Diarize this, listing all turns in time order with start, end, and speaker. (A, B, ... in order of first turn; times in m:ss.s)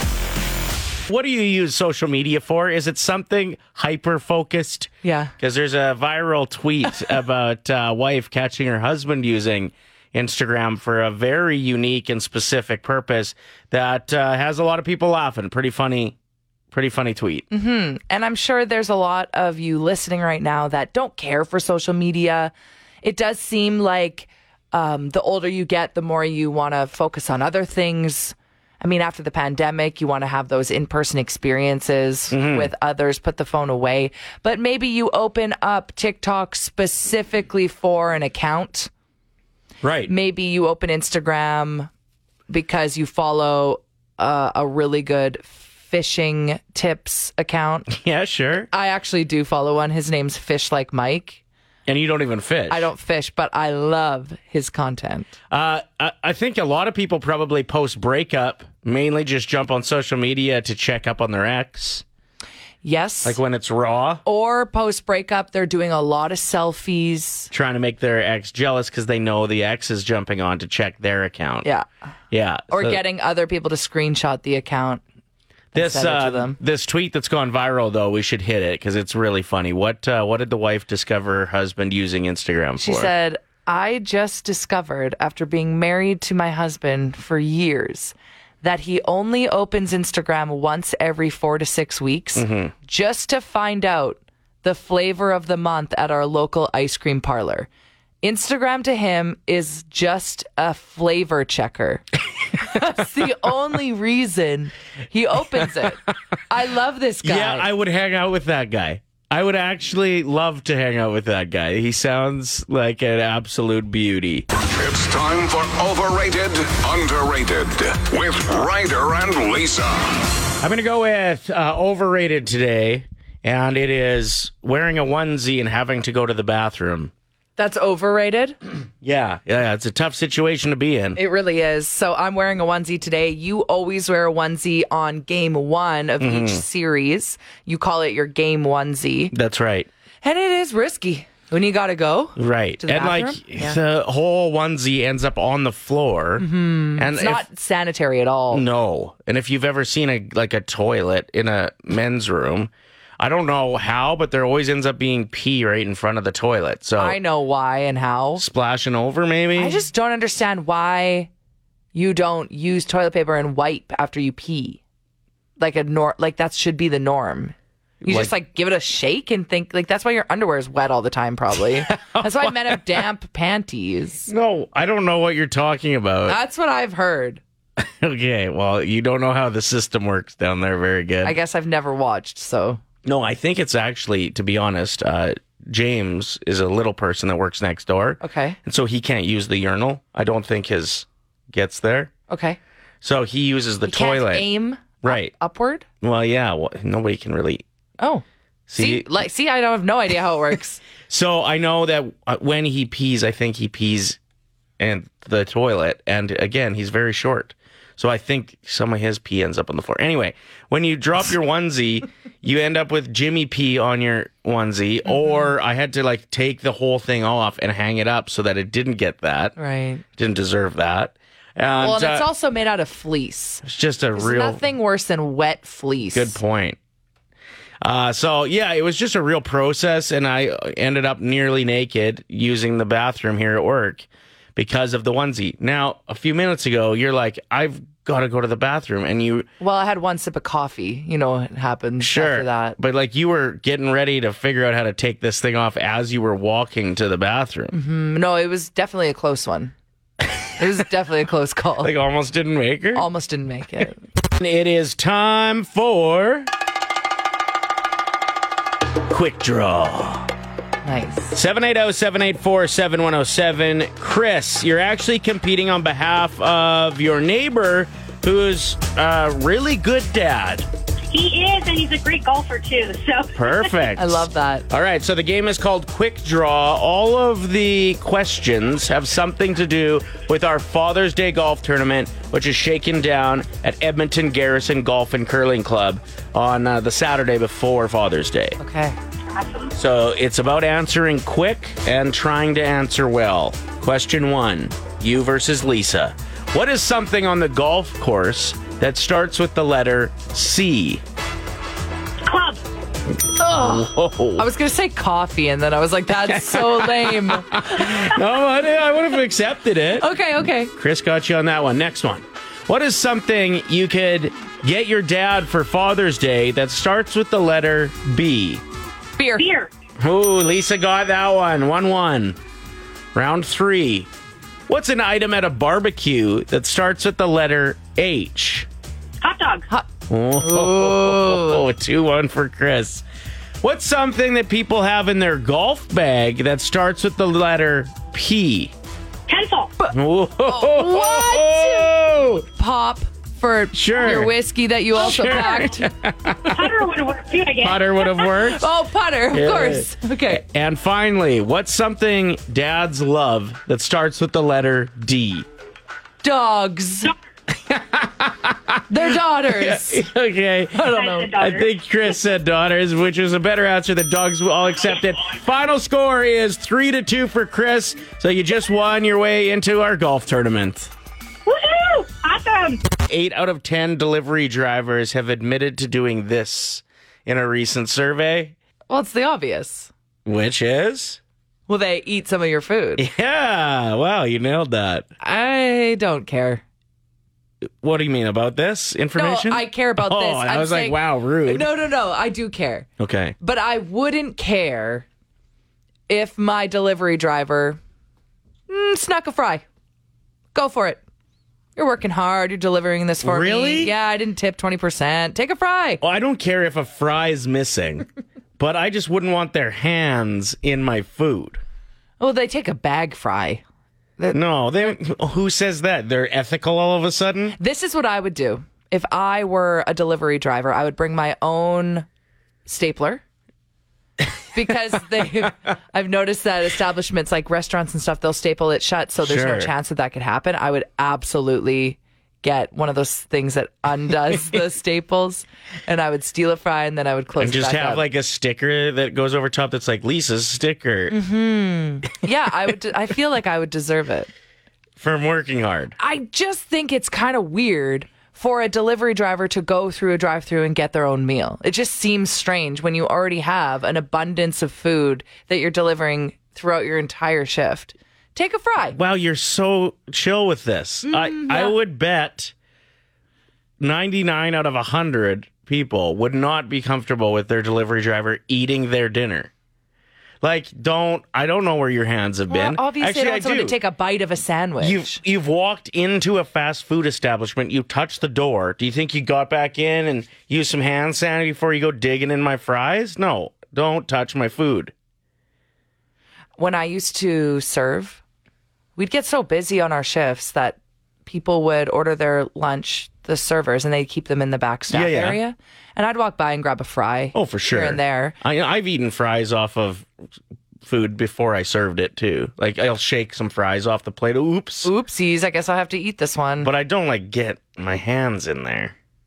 0:01.1-0:16.2 A
0:05.0-0:05.3 B
0:16.7-0:17.4 A
0:17.5-0:38.9 B
0:32.3-0:32.7 A
0:39.8-0:40.1 A
0:40.1-0:41.9 B
0:42.5-0:47.9 B
0:47.9-0:48.7 A
0:48.7-0:51.4 B
0:51.9-0:52.9 A
0:52.7-0:55.3 B
0:55.5-1:02.0 A
1:02.8-1:03.4 B
1:03.2-1:04.2 A
1:04.2-1:07.5 B
1:07.5-1:11.7 A
1:12.3-1:13.0 A
1:12.7-1:15.0 B
1:15.7-1:23.1 A
1:15.8-1:16.6 B
1:22.8-1:37.7 B
1:32.4-1:32.7 A
1:38.2-1:42.1 B
1:42.6-1:47.7 B
1:47.2-1:54.4 A
1:54.8-1:59.8 C
2:00.6-2:07.1 A
2:07.6-2:08.6 B
2:09.0-2:11.2 A
2:11.2-2:19.3 B
2:16.2-2:16.6 A
2:19.3-2:19.9 A
2:20.2-2:23.8 B
2:22.4-2:27.4 A
2:26.4-2:28.7 B
2:28.5-2:37.2 A
2:37.0-2:38.4 B
2:38.4-2:39.8 A
2:39.6-2:41.3 B
2:41.9-2:44.8 B
2:45.6-2:54.3 B
2:48.0-2:48.3 A
2:51.8-2:52.8 A
2:54.3-2:56.4 A
2:56.3-2:57.4 B
2:57.8-3:01.4 A
3:01.2-3:02.8 B
3:03.0-3:12.1 A
3:08.2-3:08.6 B
3:12.3-3:12.6 B
3:13.0-3:14.5 A
3:13.9-3:15.8 B
3:15.0-3:15.3 A
3:16.0-3:17.6 A
3:18.7-3:19.1 A
3:18.8-3:20.8 B
3:21.1-3:24.2 A
3:24.8-3:39.6 A
3:35.1-3:35.5 B
3:39.6-3:40.0 B
3:40.2-3:42.2 A
3:41.8-3:43.6 B
3:43.6-3:44.6 A
3:44.2-3:46.4 B
3:46.1-3:46.8 A
3:47.8-3:59.5 A
3:59.6-4:02.8 B
4:02.0-4:07.7 A
4:07.7-4:09.7 B
4:10.6-4:11.9 B
4:11.8-4:13.1 A
4:12.9-4:14.0 B
4:14.4-4:16.5 A
4:19.1-4:20.3 A
4:20.8-4:21.4 B
4:21.3-4:30.7 A
4:31.1-4:33.6 D
4:33.4-4:48.6 A
4:34.0-4:34.7 B
4:48.6-4:49.0 B
4:49.4-4:49.7 D
4:49.8-5:01.0 A
5:02.3-5:02.6 D
5:03.4-5:04.4 A
5:03.4-5:07.9 B
5:06.2-5:10.1 A
5:10.0-5:10.7 B
5:10.8-5:18.6 A
5:19.2-5:19.5 B
5:19.4-5:19.7 D
5:20.0-5:22.4 A
5:23.1-5:24.1 A
5:24.7-5:28.7 A
5:29.2-5:29.6 D
5:30.1-5:33.0 A
5:30.4-5:31.6 B
5:33.6-5:38.7 A
5:39.3-5:39.7 D
5:39.9-5:42.4 A
5:40.4-5:41.9 B
5:42.4-5:45.9 B
5:43.7-5:44.3 A
5:45.0-5:46.9 A
5:46.6-5:47.9 D
5:47.5-5:48.6 A
5:48.5-5:50.4 B
5:49.3-5:55.5 A
5:56.2-5:57.1 B
5:57.7-5:58.8 A
5:58.9-6:00.1 B
5:59.5-6:10.9 A
6:00.7-6:01.4 B
6:01.0-6:01.6 D
6:11.5-6:12.8 D
6:13.1-6:18.6 A
6:18.9-6:19.9 B
6:20.2-6:21.2 A
6:21.7-6:23.0 B
6:23.0-6:25.1 A
6:25.2-6:26.6 B
6:27.8-6:31.7 A
6:29.1-6:32.9 B
6:33.0-6:33.4 A
6:33.4-6:35.1 B
6:36.1-6:37.8 B
6:38.7-6:39.6 B
6:40.5-6:41.0 B
6:41.8-6:46.0 B
6:43.2-6:43.9 A
6:46.0-6:48.0 A
6:48.6-6:51.6 A
6:52.2-6:53.6 B
6:54.2-6:54.9 B
6:54.3-6:57.6 A
6:57.6-7:02.1 B
7:02.6-7:03.2 B
7:04.5-7:18.0 B
7:09.2-7:09.7 A
7:17.4-7:21.2 A
7:21.1-7:24.3 B
7:25.0-7:25.9 A
7:26.0-7:39.0 B
7:38.9-7:42.5 A
7:41.1-7:41.8 B
7:43.8-7:49.5 A
7:50.4-7:53.8 A
7:52.5-7:55.2 B
7:54.8-8:04.9 A
8:06.6-8:08.2 B
8:09.0-8:18.4 B
8:14.9-8:15.4 A
8:17.3-8:20.1 A
8:20.8-8:24.9 A
8:24.8-8:26.7 B
8:26.6-8:28.9 A